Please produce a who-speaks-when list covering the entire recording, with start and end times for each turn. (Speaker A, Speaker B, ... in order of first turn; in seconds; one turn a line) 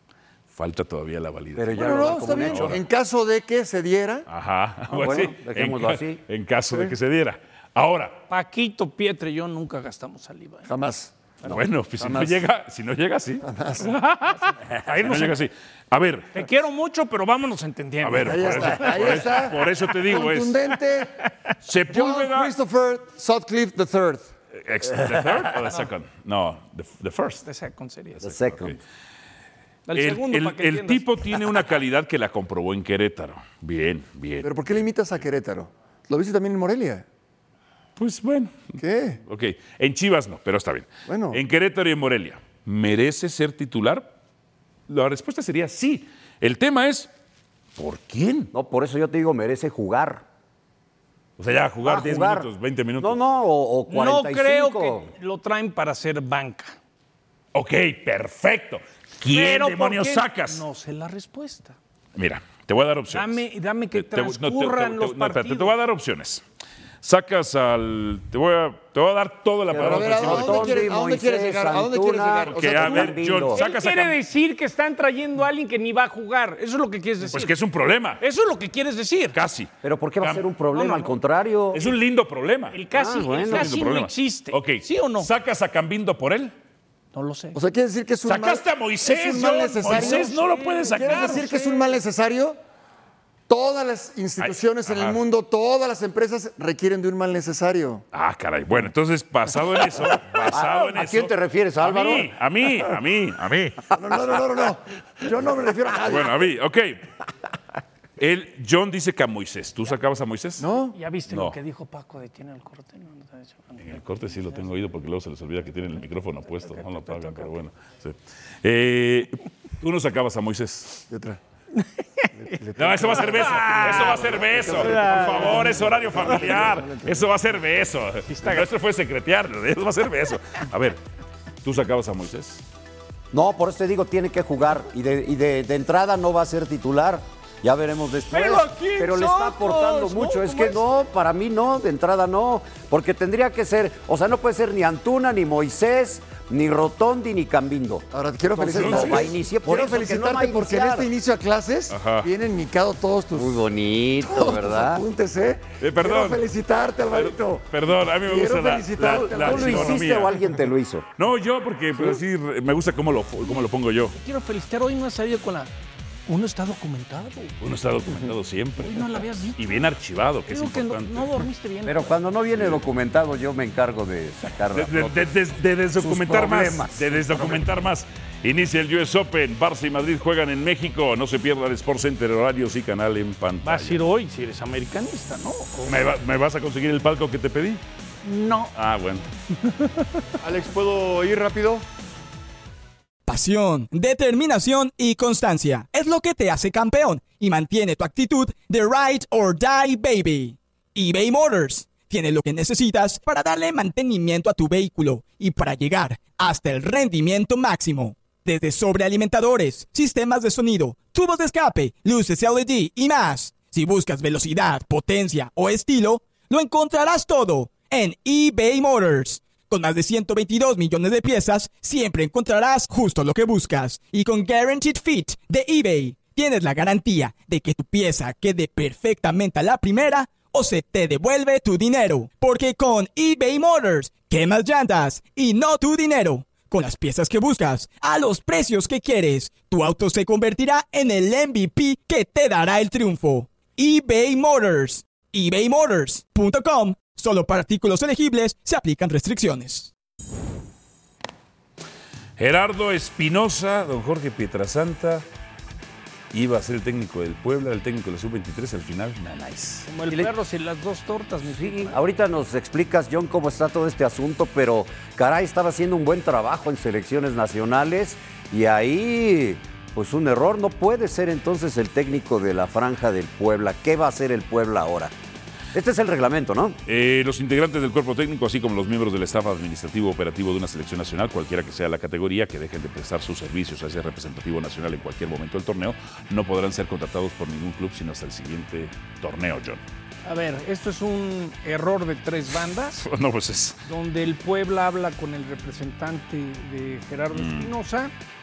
Speaker A: 0.5-2.8
Speaker B: 1.6-2.8
Speaker C: 1.8-4.3
Speaker A: 4.3-8.2
Speaker B: 4.9-6.2
Speaker D: 8.3-10.7
Speaker C: 10.7-11.1
Speaker A: 11.4-13.4
Speaker C: 12.0-12.4
Speaker C: 13.4-13.9
Speaker D: 14.1-15.4
Speaker A: 14.4-16.4
Speaker D: 16.3-19.2
Speaker A: 18.0-20.6
Speaker C: 18.2-21.1
Speaker A: 21.6-22.5
Speaker C: 21.9-24.3
Speaker A: 24.5-27.4
Speaker D: 27.4-28.2
Speaker B: 28.2-28.8
Speaker A: 28.2-28.8
Speaker D: 29.9-31.4
Speaker A: 29.9-34.5
Speaker C: 34.4-37.0
Speaker A: 38.0-44.1
Speaker C: 38.8-39.2
Speaker C: 41.1-41.4
Speaker A: 44.9-47.1
Speaker A: 47.8-48.5
Speaker B: 48.5-50.2
Speaker A: 51.4-53.2
Speaker B: 51.8-55.1
Speaker D: 53.9-56.8
Speaker A: 57.5-60.6
Speaker D: 59.2-61.8
Speaker A: 62.1-63.4
Speaker D: 63.1-65.7
Speaker A: 63.9-66.4
Speaker A: 67.0-70.8
Speaker B: 69.7-73.6
Speaker C: 69.7-73.2
Speaker A: 72.5-74.2
Speaker D: 73.5-77.5
Speaker A: 77.2-78.2
Speaker D: 78.2-79.3
Speaker A: 79.3-80.4
Speaker B: 79.8-81.9
Speaker D: 80.7-81.1
Speaker A: 81.7-82.8
Speaker D: 82.7-85.3
Speaker B: 82.9-83.7
Speaker A: 83.4-86.5
Speaker D: 87.1-87.6
Speaker C: 87.5-90.4
Speaker A: 88.2-91.5
Speaker D: 89.8-91.9
Speaker C: 90.9-92.6
Speaker C: 93.5-98.0
Speaker A: 94.4-95.2
Speaker A: 98.1-103.9
Speaker B: 100.5-102.3
Speaker C: 103.9-106.3
Speaker A: 106.0-107.0
Speaker A: 108.2-110.6
Speaker C: 110.6-111.0
Speaker D: 110.9-114.0
Speaker A: 111.3-111.5
Speaker A: 113.8-121.0
Speaker D: 116.6-117.5
Speaker C: 121.1-121.4
Speaker D: 121.8-122.3
Speaker C: 122.4-127.2
Speaker A: 122.8-131.0
Speaker D: 123.6-125.8
Speaker D: 128.3-128.7
Speaker A: 131.6-132.6
Speaker B: 133.3-151.1
Speaker D: 138.3-140.8
Speaker C: 148.1-153.6
Speaker A: 148.7-149.3
Speaker A: 151.9-152.3
Speaker B: 153.3-155.0
Speaker C: 154.2-157.7
Speaker A: 155.8-156.4
Speaker A: 157.1-160.3
Speaker C: 158.2-160.1
Speaker B: 159.2-161.1
Speaker A: 161.2-164.2
Speaker C: 161.9-162.2
Speaker D: 164.1-165.7
Speaker D: 166.3-167.5
Speaker A: 167.6-171.4
Speaker D: 168.8-169.6
Speaker D: 170.5-172.2
Speaker B: 171.8-175.3
Speaker A: 174.7-184.0
Speaker B: 176.0-177.1
Speaker D: 183.6-186.1
Speaker A: 185.8-187.8
Speaker D: 188.2-188.7
Speaker A: 188.7-189.2
Speaker C: 190.4-191.8
Speaker E: 193.3-249.9
Speaker A: 252.4-255.2
Speaker A: 256.3-259.9
Speaker D: 259.9-262.0
Speaker B: 261.5-275.1
Speaker B: 275.7-276.8
Speaker A: 276.9-289.8
Speaker D: 290.2-293.0
Speaker A: 293.0-293.8
Speaker D: 293.8-298.1
Speaker A: 297.3-297.7